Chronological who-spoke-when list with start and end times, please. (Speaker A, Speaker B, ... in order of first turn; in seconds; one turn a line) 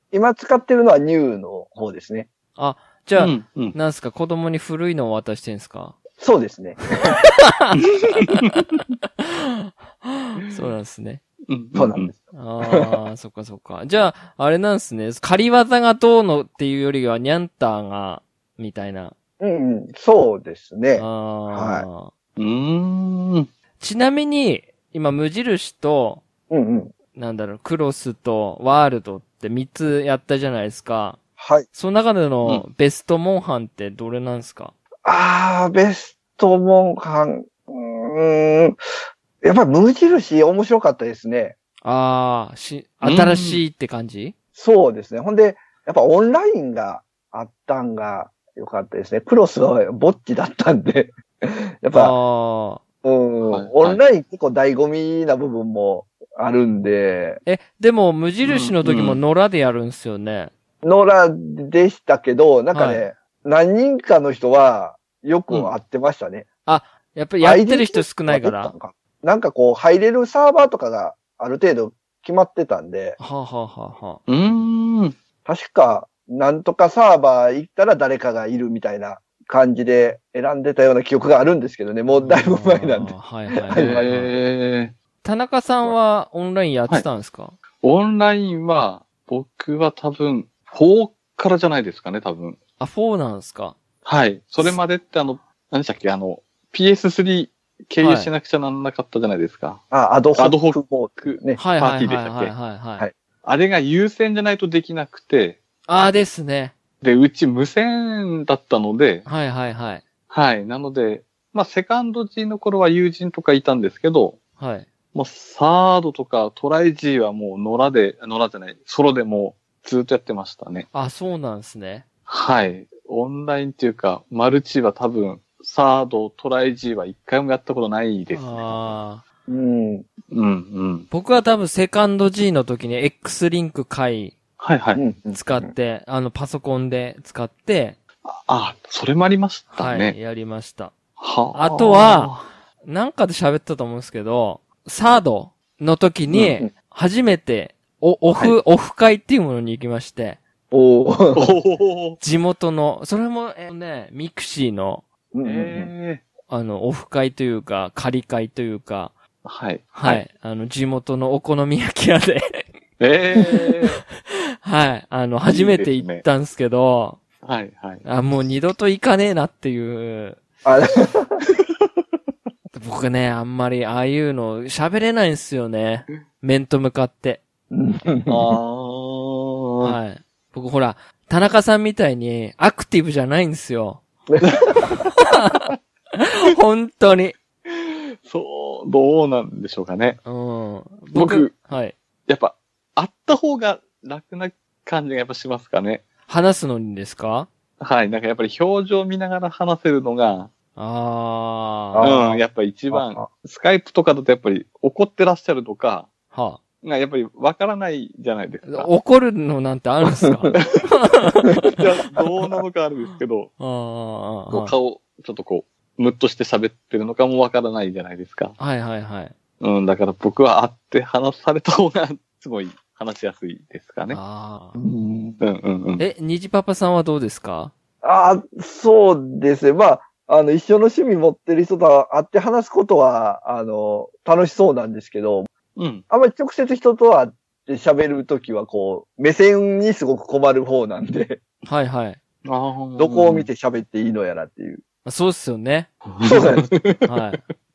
Speaker A: 0.1-2.3
Speaker B: 2.5-6.0
Speaker C: 3.2-3.8
Speaker A: 6.2-7.1
Speaker B: 7.0-11.2
Speaker C: 11.5-12.1
Speaker A: 11.7-12.9
Speaker B: 12.3-19.1
Speaker A: 19.4-21.9
Speaker B: 20.9-22.1
Speaker C: 22.4-23.5
Speaker B: 23.8-26.2
Speaker A: 26.5-26.9
Speaker B: 27.1-31.2
Speaker A: 31.4-31.7
Speaker B: 31.7-34.7
Speaker A: 35.0-38.8
Speaker A: 39.4-41.5
Speaker B: 41.8-44.3
Speaker C: 43.0-43.6
Speaker A: 44.5-52.1
Speaker B: 51.9-52.8
Speaker A: 53.0-57.4
Speaker C: 53.5-54.0
Speaker B: 57.4-60.5
Speaker C: 58.4-59.2
Speaker A: 60.8-66.5
Speaker B: 62.7-63.0
Speaker B: 66.7-68.7
Speaker A: 67.4-73.2
Speaker B: 73.2-74.2
Speaker C: 74.3-75.2
Speaker A: 75.4-84.1
Speaker B: 82.1-84.3
Speaker C: 83.7-84.9
Speaker B: 85.2-87.5
Speaker C: 87.8-92.6
Speaker B: 92.8-93.8
Speaker C: 94.0-99.8
Speaker B: 98.0-98.3
Speaker A: 99.9-101.6
Speaker C: 100.3-102.5
Speaker B: 101.6-103.0
Speaker C: 103.4-105.6
Speaker B: 105.9-106.7
Speaker C: 107.0-109.3
Speaker B: 109.2-110.0
Speaker C: 110.3-114.4
Speaker B: 114.6-114.9
Speaker C: 115.1-120.9
Speaker B: 120.9-122.0
Speaker C: 122.3-128.9
Speaker B: 128.3-129.2
Speaker A: 129.5-130.1
Speaker C: 130.3-131.1
Speaker B: 131.1-134.4
Speaker C: 134.6-135.0
Speaker A: 134.9-135.7
Speaker B: 135.3-138.0
Speaker C: 138.2-140.2
Speaker B: 139.7-140.9
Speaker C: 141.2-142.5
Speaker B: 141.5-150.4
Speaker A: 146.3-146.7
Speaker A: 150.7-151.5
Speaker C: 151.3-152.2
Speaker B: 152.2-155.0
Speaker A: 155.3-155.9
Speaker C: 155.4-156.2
Speaker B: 156.5-159.1
Speaker C: 159.4-160.2
Speaker B: 159.9-162.7
Speaker C: 163.0-164.0
Speaker B: 164.2-167.2
Speaker C: 165.4-166.2
Speaker C: 167.4-168.0
Speaker B: 168.0-170.4
Speaker A: 170.6-171.4
Speaker B: 172.7-177.4
Speaker A: 177.7-178.6
Speaker C: 178.3-180.0
Speaker B: 179.8-184.0
Speaker A: 184.3-184.6
Speaker B: 185.0-187.3
Speaker C: 187.7-190.2
Speaker B: 190.2-191.9
Speaker C: 191.1-191.5
Speaker C: 192.3-196.0
Speaker B: 196.3-197.5
Speaker C: 197.8-200.5
Speaker B: 200.8-202.2
Speaker A: 201.9-203.3
Speaker C: 202.0-206.1
Speaker B: 206.3-206.6
Speaker C: 206.8-208.9
Speaker B: 208.7-211.8
Speaker A: 210.2-210.6
Speaker C: 210.6-210.9
Speaker C: 211.7-213.5
Speaker B: 213.6-214.7
Speaker C: 214.5-218.6
Speaker B: 218.6-219.3
Speaker C: 219.6-224.2
Speaker B: 224.1-224.8
Speaker A: 224.8-225.4
Speaker C: 225.4-226.1
Speaker B: 226.0-227.7
Speaker A: 228.0-235.5
Speaker C: 235.8-236.0
Speaker A: 236.1-241.4
Speaker B: 241.7-242.2
Speaker C: 242.4-243.5
Speaker A: 243.0-244.8
Speaker B: 245.0-245.9
Speaker C: 246.0-247.1
Speaker A: 246.2-246.7
Speaker B: 247.1-247.4